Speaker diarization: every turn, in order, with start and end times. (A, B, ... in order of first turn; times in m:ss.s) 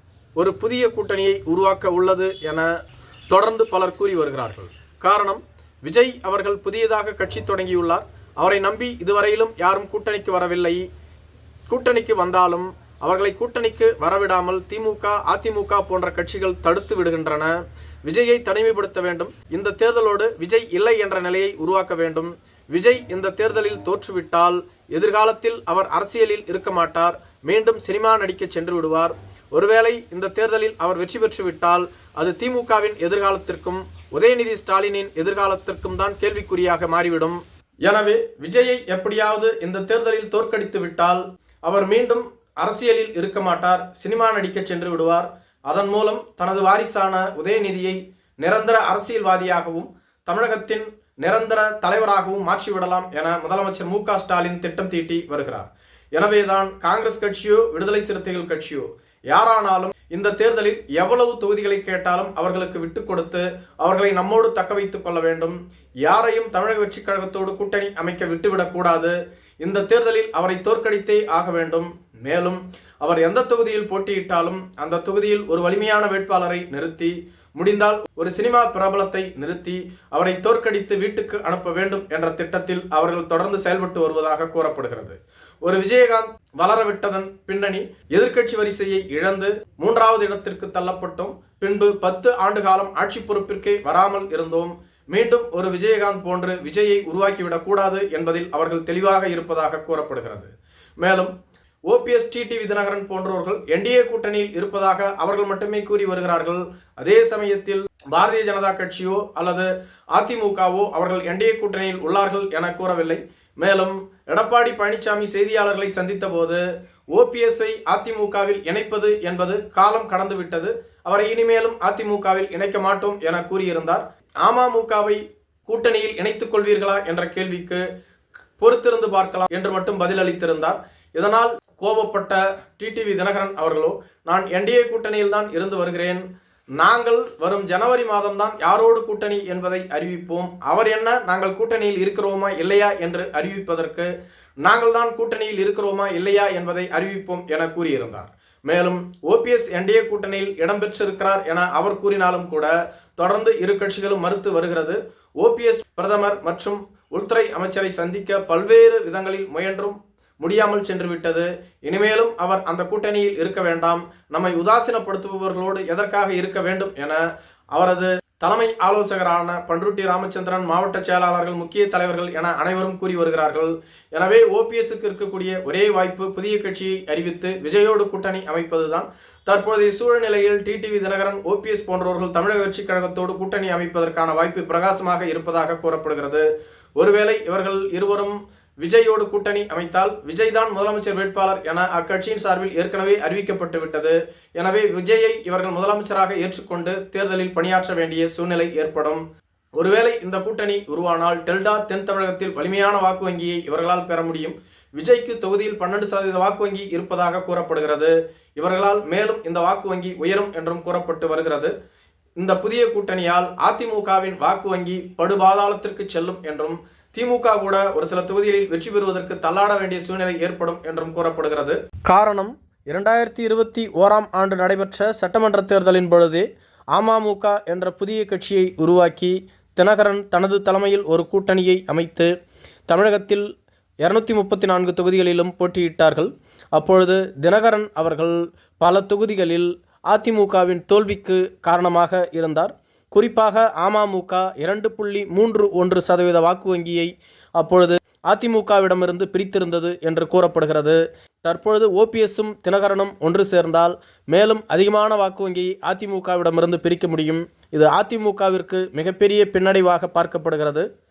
0:00.4-0:02.7 A
0:03.3-0:10.8 A
0:11.7-1:41.3 A
1:41.9-2:07.8 A
2:08.6-2:16.2 A
2:16.8-2:24.1 A
2:24.6-3:06.4 A
3:07.0-3:19.2 A
3:19.8-3:31.7 A
3:32.4-3:52.3 A
3:52.9-3:53.5 A
3:54.0-4:20.9 A